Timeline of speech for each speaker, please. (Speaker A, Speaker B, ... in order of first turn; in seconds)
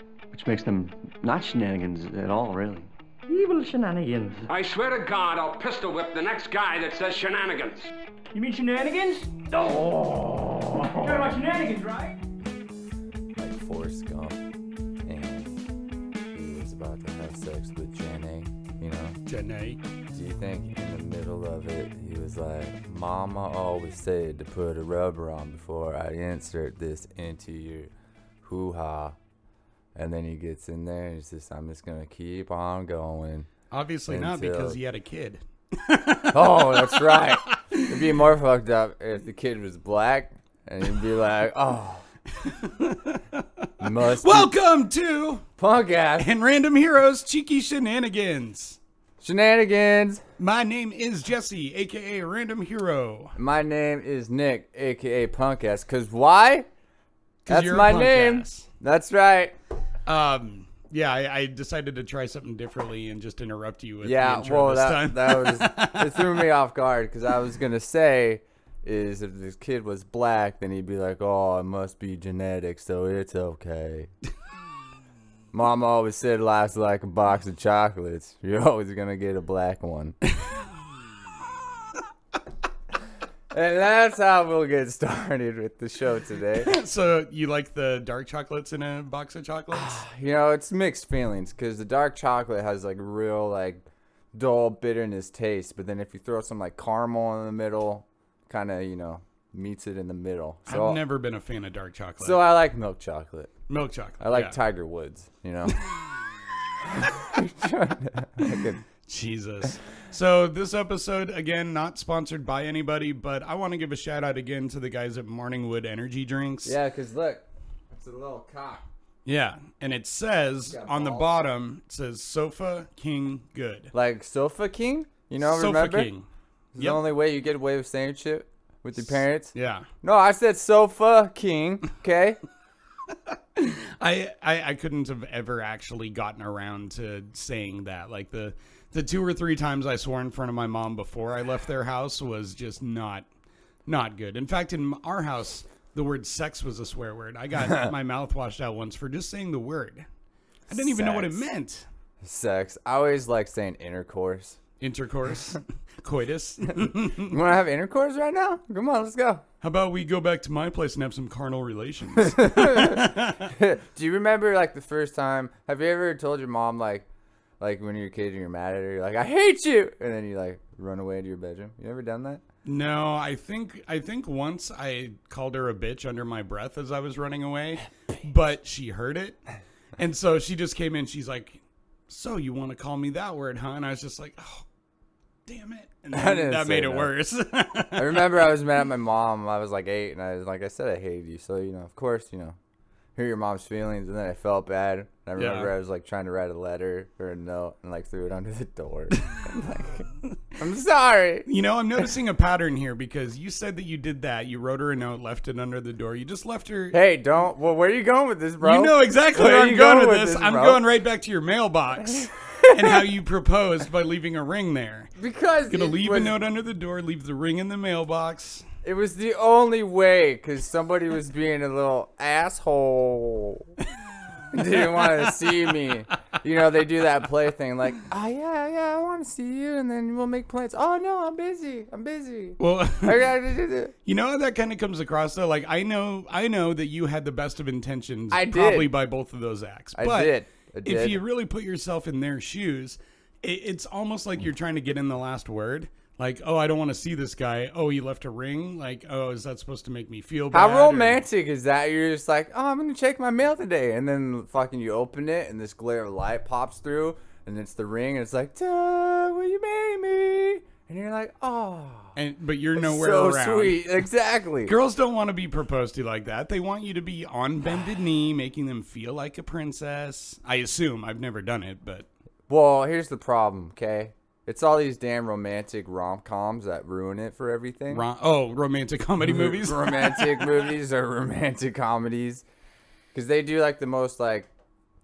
Speaker A: 0.3-4.5, 9.8-10.9
Speaker B: 4.5-7.9
Speaker C: 8.3-9.9, 10.9-12.2
Speaker D: 13.3-14.4, 15.0-15.6, 16.3-19.2, 20.1-27.9, 28.4-29.1, 29.9-33.5, 34.1-34.8, 36.3-42.0, 43.8-44.5, 45.6-46.3, 49.2-50.2, 53.4-56.7, 57.5-59.5, 64.0-74.1, 75.5-80.2, 83.5-86.7, 89.7-101.0, 102.2-103.5, 104.2-105.7, 106.9-108.8, 116.6-118.8, 120.7-121.4, 123.9-126.1, 126.7-132.4, 150.7-151.4, 152.2-154.6, 156.8-159.4, 162.2-167.1, 167.6-172.4, 186.1-187.1, 187.9-192.6, 193.2-201.5, 206.9-210.8, 212.2-213.0, 215.2-216.3, 218.8-223.7, 224.5-233.9, 238.3-238.9, 239.9-241.2, 250.5-262.1, 262.8-264.7, 272.5-278.0, 279.2-282.4, 283.1-284.5
Speaker E: 19.3-19.8, 33.7-38.0, 42.4-45.4, 46.2-48.8, 50.4-53.4, 57.5-58.7, 60.0-66.4, 86.6-90.0, 100.7-102.4, 103.7-104.6, 108.4-116.8, 119.2-123.9, 125.4-127.0, 129.0-129.9, 133.3-143.2, 143.8-150.1, 150.7-151.9, 154.8-157.4, 159.6-163.5, 172.6-179.4, 180.0-184.6, 185.4-188.5, 195.3-195.7, 201.4-207.0, 208.6-215.1, 215.7-218.7, 224.6-225.5, 232.6-233.3, 234.0-251.2, 262.1-263.9, 264.6-272.1, 277.9-280.6